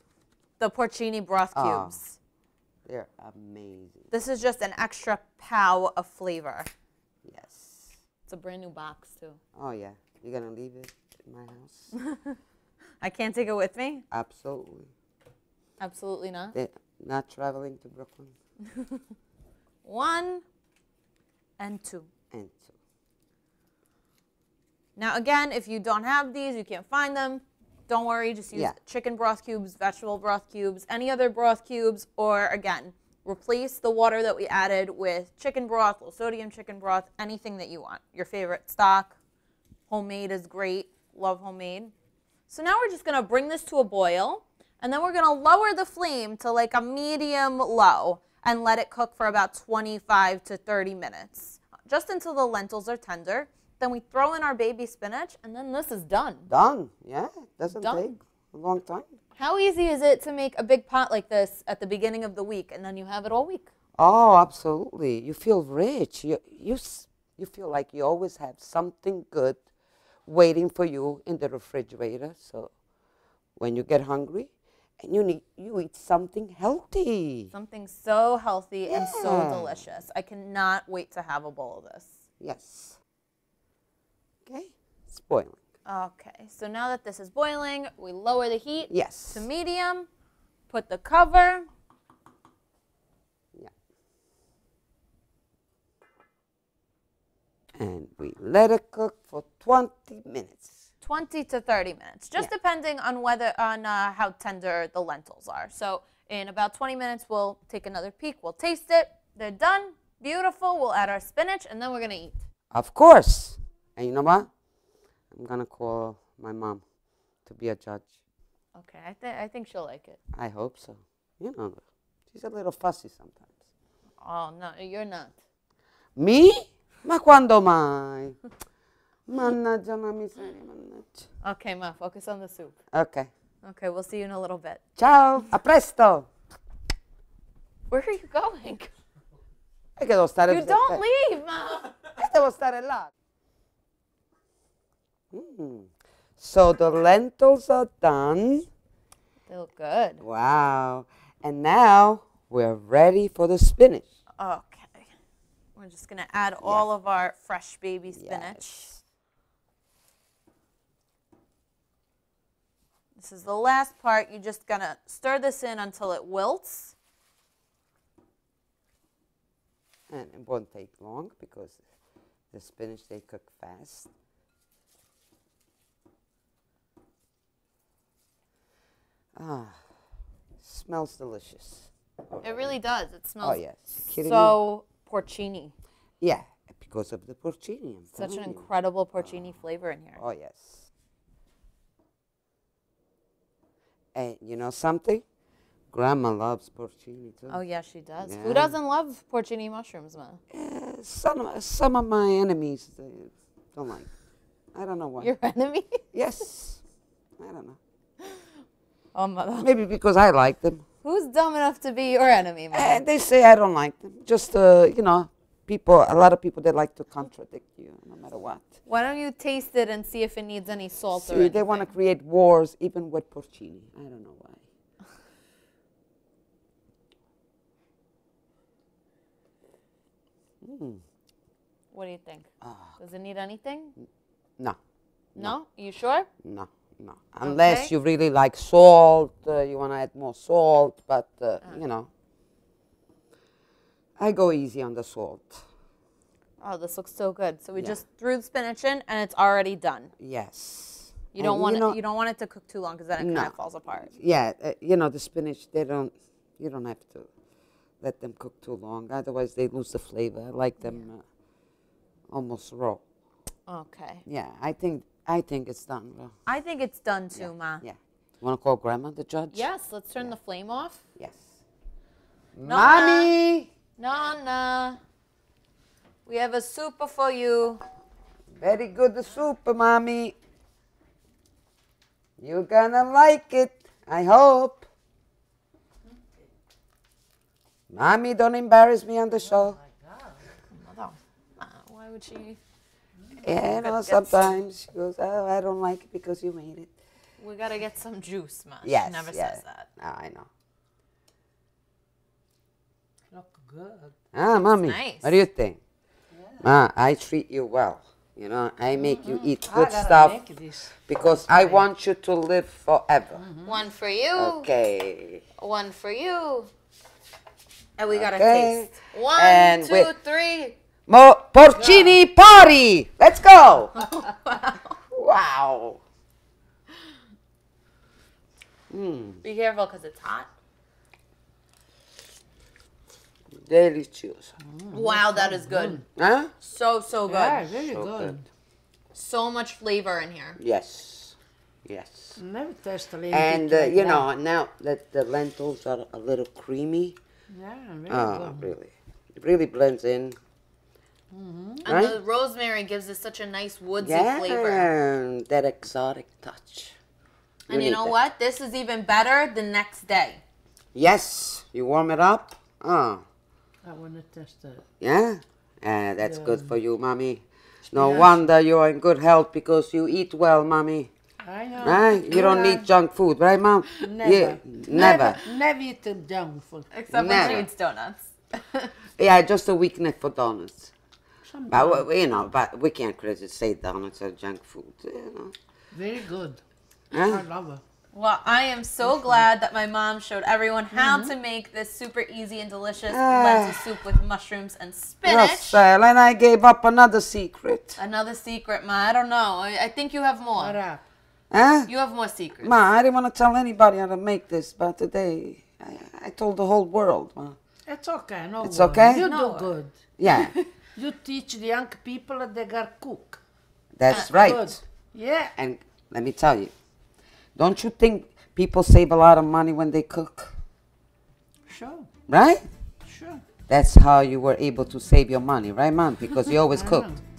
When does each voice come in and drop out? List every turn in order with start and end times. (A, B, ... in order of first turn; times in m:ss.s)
0:00.6-0:02.2 A
0:01.5-0:02.0 B
0:02.9-0:04.1 B
0:04.1-0:06.7 A
0:07.2-0:08.0 B
0:08.3-0:09.4 A
0:09.6-0:11.9 B
0:12.0-0:12.3 A
0:13.0-0:14.0 A
0:14.1-0:14.9 B
0:15.8-0:16.6 A
0:16.5-0:18.4 B
0:19.8-0:20.4 A
0:21.6-0:22.1 A
0:22.3-0:22.8 B
0:25.0-0:39.2 A
0:39.9-0:41.9 A
0:42.5-0:56.5 A
0:56.5-0:59.1 B
0:57.7-0:58.2 A
0:59.4-1:03.7 A
1:04.0-1:09.6 B
1:10.3-1:12.7 B
1:13.6-1:17.5 B
1:17.5-1:22.2 A
1:18.9-1:19.8 B
1:22.4-1:23.0 B
1:24.5-1:25.6 B
1:25.8-1:30.1 A
1:28.9-1:29.5 B
1:30.7-1:31.7 A
1:37.8-1:40.8 B
1:41.0-1:52.4 A
1:52.7-1:54.5 B
1:55.3-1:56.8 B
1:57.4-1:58.1 B
1:58.8-2:00.2 A
2:00.3-2:03.5 B
2:04.2-2:05.4 A
2:06.2-2:08.4 B
2:09.3-2:11.2 B
2:11.4-2:12.8 A
2:12.9-2:13.3 B
2:13.6-2:14.8 A
2:15.0-2:16.3 B
2:17.9-2:18.9 A
2:20.0-2:21.0 B
2:20.5-2:22.1 A
2:22.2-2:23.1 B
2:25.3-2:28.7 B
2:29.5-2:30.2 A
2:30.2-2:34.1 B
2:34.4-2:35.1 A
2:35.8-2:38.9 A
2:38.1-2:39.0 B
2:43.2-2:47.0 A
2:50.1-2:51.8 B
2:52.5-2:54.1 B
2:59.4-2:59.8 B
3:00.6-3:02.8 B
3:02.4-3:05.8 A
3:03.4-3:04.6 B
3:06.2-3:09.6 B
3:08.1-3:10.2 A
3:10.2-3:10.9 B
3:14.2-3:15.2 B
3:15.9-3:17.6 B
3:17.5-3:20.4 A
3:18.2-3:18.7 B
3:20.5-3:24.1 B
3:24.7-3:25.3 B
3:25.2-3:26.0 A
3:26.1-3:26.8 B
3:27.4-3:27.8 B
3:29.1-3:29.7 A
3:29.6-3:30.8 B
3:31.0-3:33.0 A
3:32.7-3:38.7 B
3:38.8-3:41.9 A
3:41.1-3:44.6 B
3:50.6-3:51.0 B
3:51.9-3:54.0 A
3:52.6-3:53.0 B
3:55.4-3:56.3 A
3:56.4-4:02.1 B
3:57.4-3:57.9 A
4:04.2-4:05.7 B
4:06.6-4:10.1 A
4:10.2-4:12.0 B
4:11.3-4:14.1 A
4:13.2-4:17.3 B
4:18.0-4:21.2 B
4:20.8-4:21.1 A
4:22.3-4:23.0 B
4:23.7-4:24.2 A
4:24.3-4:26.3 B
4:26.5-4:27.8 A
4:27.4-4:29.7 B
4:29.5-4:31.0 A
4:31.2-4:31.5 B
4:32.6-4:33.7 B
4:32.6-4:33.3 A
4:34.0-4:35.0 A
4:36.3-4:37.8 A
4:38.6-4:40.4 B
4:42.4-4:44.8 B
4:47.9-4:49.8 B
4:49.5-4:50.3 C
4:50.7-4:52.6 A
4:53.4-4:56.9 B
4:53.4-4:54.6 A
4:57.4-4:59.9 A
4:58.8-5:00.5 B
5:03.3-5:04.1 C
5:04.3-5:05.8 B
5:04.8-5:05.4 A
5:06.6-5:10.4 B
5:09.0-5:11.9 C
5:11.1-5:13.4 B
5:13.4-5:13.8 C
5:13.6-5:14.7 A
5:14.4-5:15.4 B
5:15.6-5:16.7 A
5:18.0-5:20.8 A
5:18.1-5:20.1 B
5:21.1-5:24.0 B
5:21.7-5:22.2 C
5:24.0-5:24.9 A
5:25.1-5:26.0 B
5:28.9-5:29.4 B
5:29.4-5:30.5 A
5:33.6-5:34.5 B
5:34.6-5:36.0 C
5:34.9-5:36.0 A
5:36.2-5:36.5 B
5:36.6-5:37.7 A
5:37.3-5:38.4 C
5:37.8-5:38.4 B
5:39.1-5:40.6 A
5:40.6-5:42.4 B
5:42.4-5:44.3 C
5:43.3-5:47.2 B
5:47.5-5:48.8 C
5:48.1-5:50.4 B
5:51.3-5:51.8 C
5:51.8-5:54.9 A
5:51.8-5:52.2 B
5:54.0-5:57.0 B
5:57.7-6:00.4 A
5:57.7-5:58.2 B
6:00.9-6:03.2 B
6:03.8-6:04.8 C
6:05.0-6:11.1 B
6:06.2-6:06.8 C
6:07.9-6:08.4 C
6:11.4-6:12.9 C
6:11.8-6:15.4 B
6:14.0-6:16.9 C
6:15.0-6:15.3 A
6:16.9-6:18.8 A
6:17.1-6:17.7 B
6:19.2-6:20.9 B
6:21.4-6:22.1 C
6:21.7-6:25.5 B
6:25.9-6:26.6 C
6:27.1-6:27.4 B
6:27.1-6:27.8 C
6:28.1-6:35.8 A
6:29.0-6:29.4 C
6:30.9-6:31.3 C
6:33.1-6:33.9 B
6:35.2-6:38.0 B
6:38.0-6:40.8 A
6:40.6-6:41.0 C
6:41.5-6:41.9 B
6:41.9-6:42.8 A
6:42.6-6:47.6 B
6:47.9-6:50.0 C
6:48.6-6:49.3 B
6:49.2-6:49.7 A
6:50.2-6:50.6 B
6:50.3-6:50.7 A
6:51.0-6:53.4 C
6:54.0-6:54.8 B
6:54.1-6:55.5 C
6:55.6-6:56.7 B
6:57.6-7:00.6 B
7:01.7-7:02.1 C
7:02.3-7:02.7 B
7:03.0-7:03.4 C
7:03.7-7:07.1 B
7:06.7-7:07.2 C